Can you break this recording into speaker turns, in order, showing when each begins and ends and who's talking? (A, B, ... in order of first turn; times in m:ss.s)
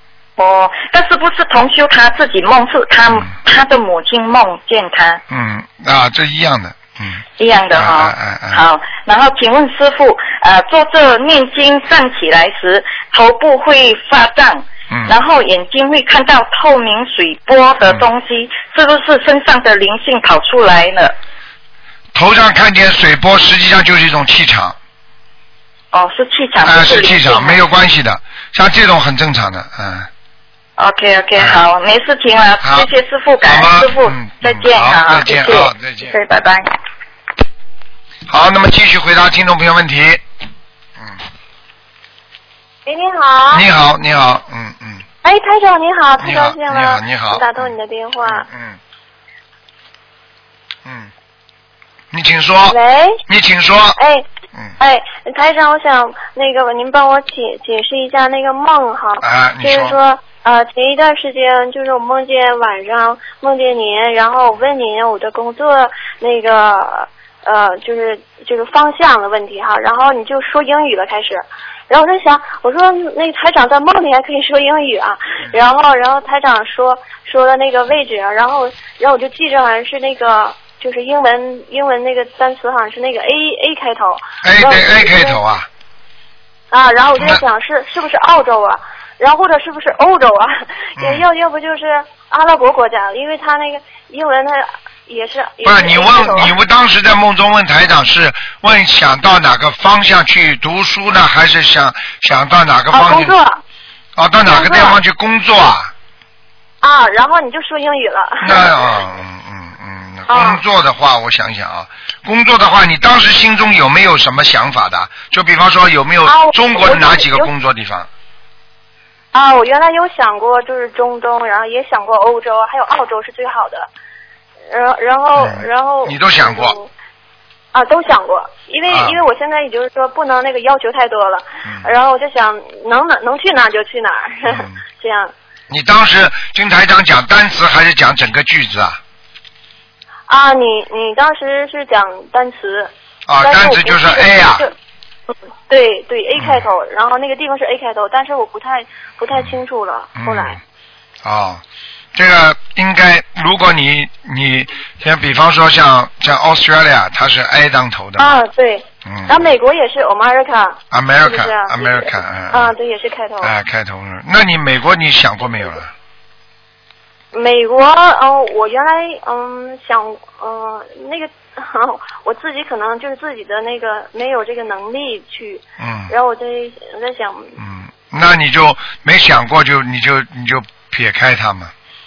0:00.4-0:05.2 A
0:05.3-0:07.2 B
0:07.4-0:21.2 A
0:07.7-0:08.6 B
0:14.9-0:15.2 B
0:22.1-0:24.8 B
0:25.9-0:27.6 A
0:26.6-0:30.1 B
0:30.8-0:36.7 A
0:31.4-0:31.6 B
0:32.6-0:32.9 B
0:33.5-0:36.2 B
0:38.3-0:40.2 B
0:42.9-0:43.6 C
0:43.5-0:45.0 B
0:45.2-0:48.5 C
0:46.2-0:47.7 B
0:48.3-0:48.8 B
0:50.9-0:51.1 B
0:52.1-0:54.0 B
0:52.7-0:53.2 C
0:54.0-0:54.2 C
0:54.8-1:25.4 C
0:59.2-1:00.0 B
1:24.4-1:25.7 B
1:26.7-1:36.6 C
1:31.0-1:31.2 B
1:35.6-1:43.3 B
1:42.9-1:43.6 C
1:44.2-1:45.9 B
1:44.5-1:45.0 C
1:46.8-1:49.0 C
1:48.4-1:58.1 B
1:50.3-1:50.6 C
1:56.2-1:57.5 C
1:59.3-2:03.9 C
2:04.7-2:06.9 C
2:05.4-2:06.8 B
2:07.7-2:15.3 C
2:08.9-2:09.2 B
2:14.5-2:14.8 B
2:15.7-2:19.0 B
2:20.3-2:24.7 C
2:23.3-2:24.7 B
2:25.7-2:30.6 C
2:26.4-2:26.7 B
2:30.2-2:30.6 B
2:31.2-2:31.6 B
2:32.2-2:38.4 B
2:38.2-2:43.5 C
2:39.0-2:39.4 B
2:40.9-2:42.7 B
2:43.4-2:45.9 B
2:47.3-2:57.6 C
2:55.8-2:56.1 B
2:57.6-3:01.7 B